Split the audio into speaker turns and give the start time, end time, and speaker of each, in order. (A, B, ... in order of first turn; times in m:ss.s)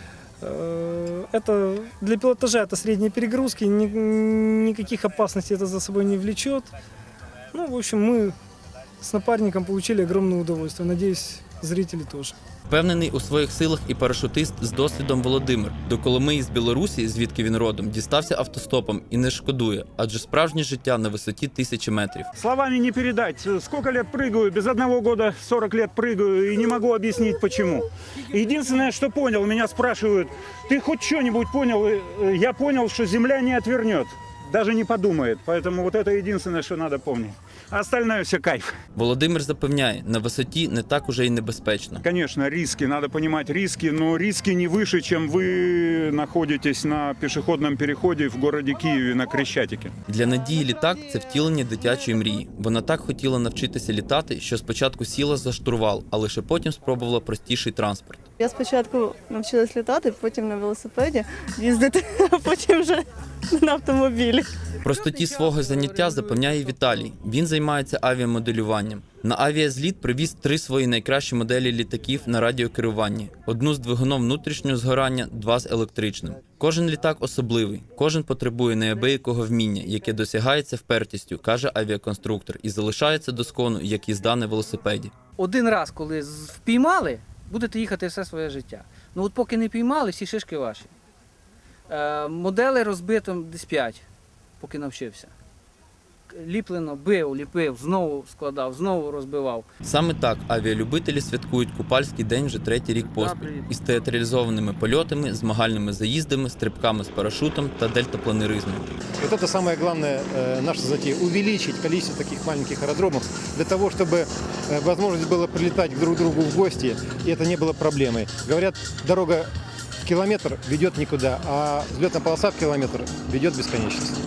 0:00.4-0:06.7 A
0:07.5-0:08.4 A
0:09.0-0:12.4 A
0:12.7-0:22.3 B
0:22.4-0:38.7 C
0:39.0-0:42.0 B
0:42.0-0:49.9 C
0:50.1-0:58.2 B
0:58.4-1:04.5 D
1:04.8-1:25.1 B
1:04.9-1:07.1 E
1:25.4-1:30.9 E
1:31.9-1:34.1 E
1:34.6-1:35.3 E
1:36.3-1:39.7 E
1:39.8-1:48.9 B
1:43.1-1:43.7 E
1:49.2-1:59.5 F
2:00.0-2:04.2 F